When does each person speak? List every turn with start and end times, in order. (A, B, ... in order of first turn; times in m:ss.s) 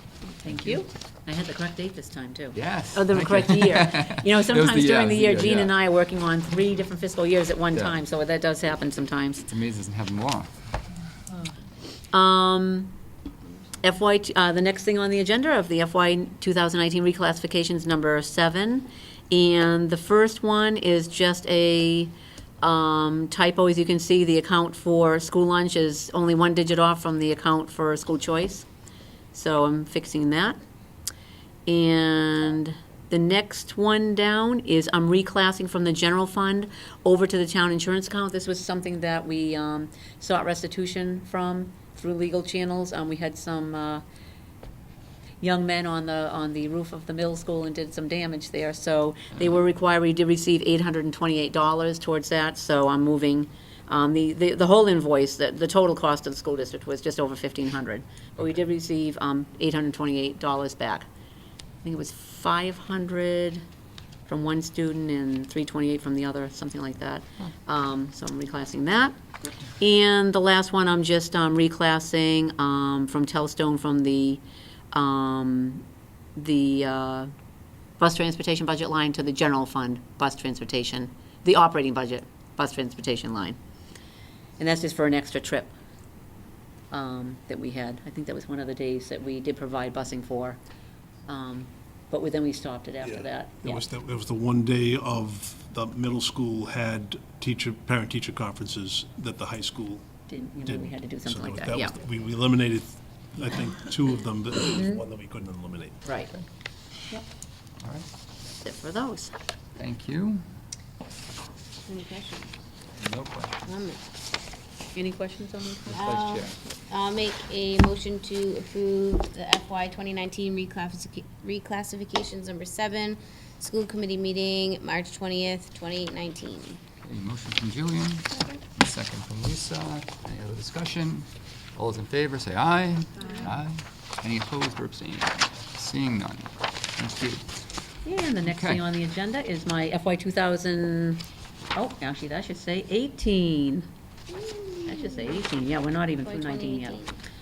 0:00.4-0:09.4 A
0:00.5-0:00.8 B
0:02.6-0:05.7 B
0:09.5-0:10.5 B
0:12.1-0:12.9 A
0:13.8-0:28.7 A
0:29.3-0:30.6 A
0:31.7-0:44.0 A
0:45.4-1:01.1 A
1:01.8-1:03.6 A
1:04.3-1:09.2 A
1:09.8-1:15.8 A
1:16.4-1:17.3 A
1:18.0-1:23.6 A
1:24.6-1:25.8 A
1:26.9-1:30.6 A
1:31.3-1:33.8 A
1:33.0-1:40.1 C
1:40.3-1:42.0 A
1:40.6-1:46.0 C
1:46.0-1:46.3 A
1:48.6-1:49.3 A
1:49.8-1:50.4 B
1:51.9-1:52.5 D
1:53.0-1:53.7 B
1:53.7-1:54.0 D
1:54.9-1:56.0 A
1:55.9-1:56.6 B
1:55.9-2:06.8 D
2:07.0-2:17.4 B
2:18.0-2:23.9 A
2:18.4-2:18.8 B
2:24.4-2:25.4 D
2:24.9-2:27.0 A
2:26.2-2:27.2 D